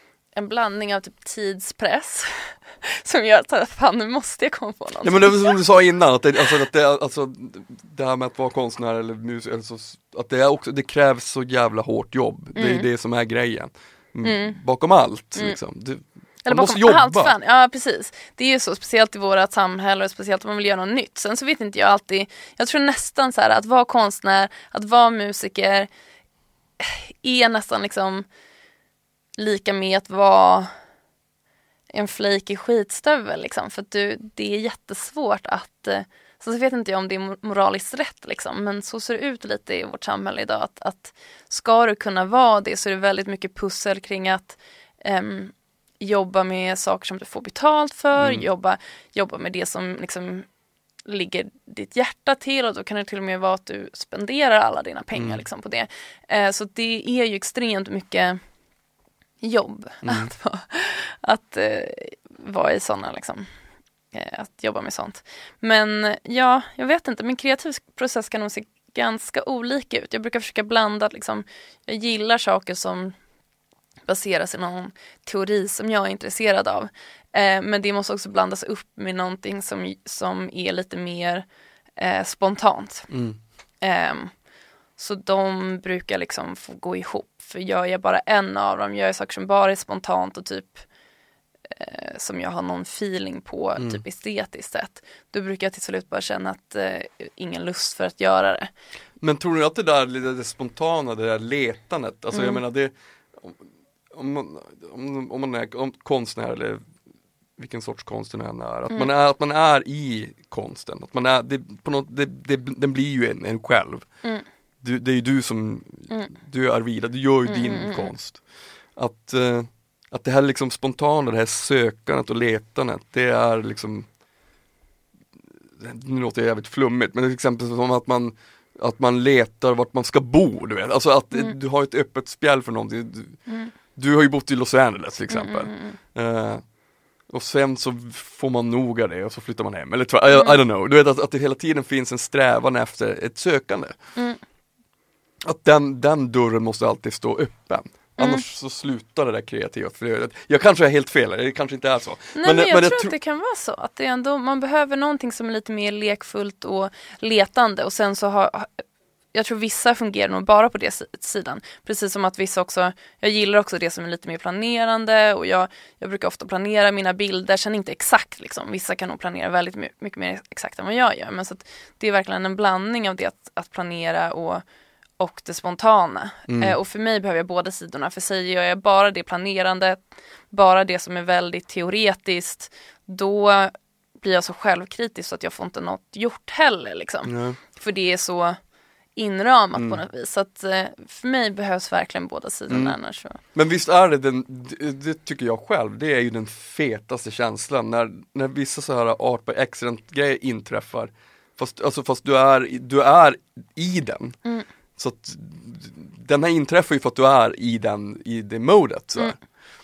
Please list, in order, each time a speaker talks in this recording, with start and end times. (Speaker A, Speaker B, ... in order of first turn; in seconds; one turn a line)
Speaker A: 0.3-5.6
Speaker B: 5.0-17.3
Speaker A: 12.6-12.9
Speaker A: 14.2-14.6
Speaker A: 16.4-25.9
Speaker A: 26.8-28.3
Speaker A: 29.4-30.7
Speaker A: 31.9-50.5
Speaker B: 48.2-48.5
Speaker A: 51.0-58.4
Speaker B: 55.1-55.4
Speaker A: 59.4-63.5
Speaker B: 60.0-60.3
Speaker A: 64.1-73.2
Speaker A: 74.1-81.5
Speaker A: 82.0-83.1
Speaker B: 83.1-83.4
Speaker A: 83.8-84.3
Speaker A: 85.0-90.9
Speaker A: 91.7-98.7
Speaker B: 99.2-106.8
Speaker A: 102.3-102.6
Speaker B: 107.6-114.0
Speaker B: 114.8-118.4
Speaker A: 117.5-118.1
Speaker B: 119.0-124.1
Speaker B: 125.7-133.4
Speaker A: 133.5-133.7
Speaker B: 133.9-136.6
Speaker A: 135.3-136.0
Speaker B: 137.3-143.9
Speaker A: 140.3-140.6
Speaker B: 145.4-153.1
Speaker A: 148.2-148.4
Speaker A: 152.3-174.6
Speaker A: 175.2-188.6
Speaker B: 176.5-176.8
Speaker B: 187.2-187.6
Speaker A: 189.2-193.4
Speaker B: 189.8-190.0
Speaker B: 192.7-193.0
Speaker B: 193.5-204.4
Speaker B: 205.0-209.4